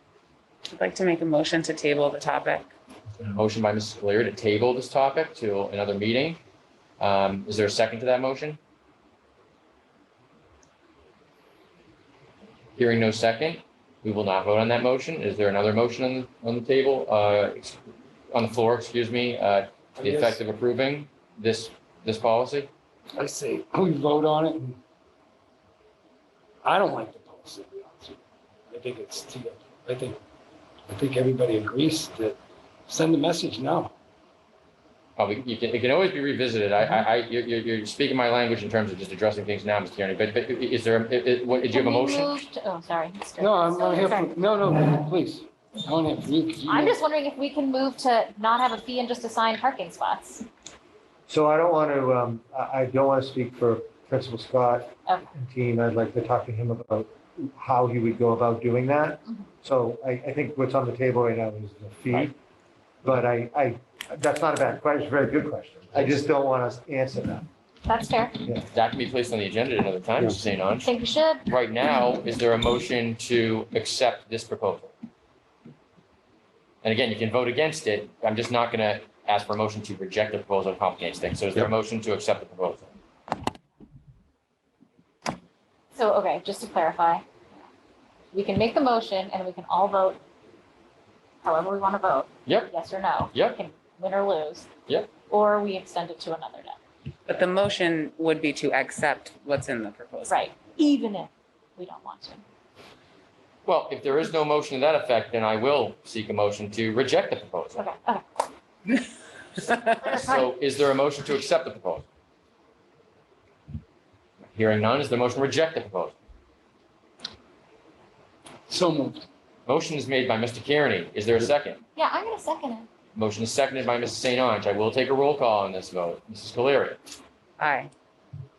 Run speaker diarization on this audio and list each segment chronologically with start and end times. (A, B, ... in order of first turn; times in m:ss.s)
0:00.7-0:02.7 A
0:03.2-0:06.4 B
0:07.0-0:08.6 B
0:12.8-0:17.8 B
0:18.3-0:22.7 B
0:20.0-0:20.4 C
0:23.2-0:24.8 C
0:26.6-0:28.2 C
0:28.7-0:30.2 C
0:30.9-0:32.4 C
0:32.9-0:33.9 C
0:35.2-0:42.4 B
0:41.6-0:44.4 D
0:43.4-0:47.0 C
0:46.7-0:50.5 D
0:51.3-1:02.4 E
1:03.0-1:07.5 E
1:07.9-1:08.4 D
1:08.7-1:10.9 B
1:10.8-1:11.4 D
1:11.5-1:14.9 B
1:16.8-1:23.0 B
1:25.9-1:27.2 D
1:28.3-1:30.2 D
1:31.4-1:34.7 D
1:32.5-1:32.7 B
1:33.3-1:33.6 B
1:35.3-1:36.8 D
1:37.3-1:40.4 A
1:40.3-1:42.4 D
1:43.7-1:47.9 B
1:47.8-1:48.2 D
1:50.0-1:50.5 D
1:50.1-1:52.1 B
1:54.5-1:56.2 B
1:58.7-1:59.2 C
1:59.7-2:01.8 B
2:02.0-2:02.9 D
2:03.2-2:07.0 B
2:07.6-2:07.9 A